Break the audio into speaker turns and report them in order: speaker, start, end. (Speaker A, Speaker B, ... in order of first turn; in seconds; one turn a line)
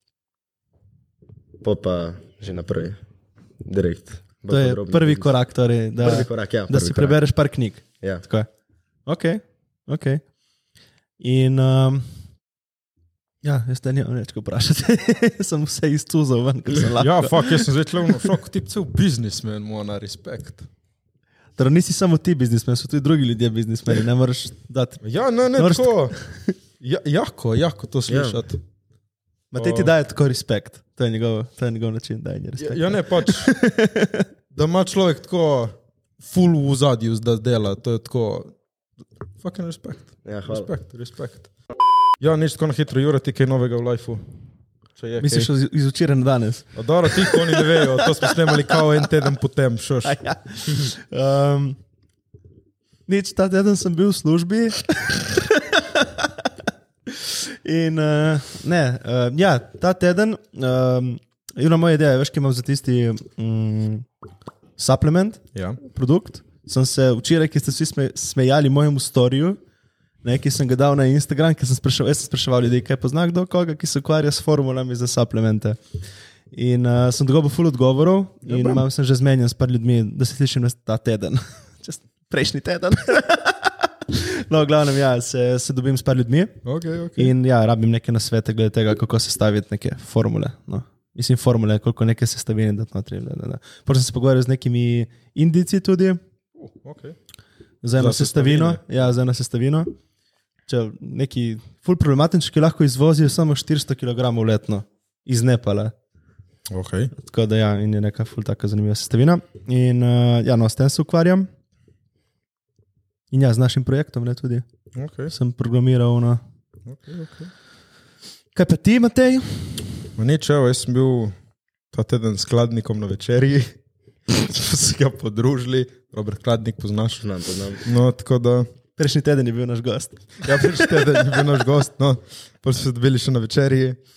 Speaker A: 1.6-3.0
Speaker A: 3.6-5.3
Speaker B: 4.5-8.5
Speaker A: 6.0-7.2
Speaker B: 9.1-10.2
Speaker B: 11.2-12.1
Speaker B: 13.4-18.1
Speaker C: 17.0-20.7
Speaker B: 21.6-25.0
Speaker C: 25.0-26.1
Speaker B: 25.6-26.5
Speaker C: 26.8-28.6
Speaker A: 28.1-28.4
Speaker B: 29.5-34.2
Speaker C: 29.6-29.9
Speaker C: 32.6-33.6
Speaker C: 34.5-38.5
Speaker C: 39.4-41.5
Speaker A: 40.2-40.7
Speaker C: 42.2-44.2
Speaker C: 45.0-45.5
Speaker B: 45.2-48.7
Speaker C: 46.8-50.2
Speaker B: 50.0-51.8
Speaker B: 53.1-56.3
Speaker B: 57.1-64.1
Speaker B: 64.8-69.6
Speaker B: 70.2-75.8
Speaker B: 76.5-86.6
Speaker C: 78.5-78.8
Speaker C: 86.7-87.3
Speaker B: 87.2-96.2
Speaker C: 96.6-97.2
Speaker B: 97.8-99.9
Speaker C: 98.0-98.8
Speaker B: 100.7-105.9
Speaker C: 106.7-107.1
Speaker B: 107.2-111.5
Speaker B: 113.3-114.7
Speaker C: 114.9-115.3
Speaker B: 115.3-116.4
Speaker C: 116.9-117.5
Speaker B: 118.5-119.8
Speaker C: 120.2-121.3
Speaker C: 121.9-123.8
Speaker C: 124.3-128.7
Speaker A: 127.2-127.8
Speaker B: 129.0-130.8
Speaker C: 130.4-134.0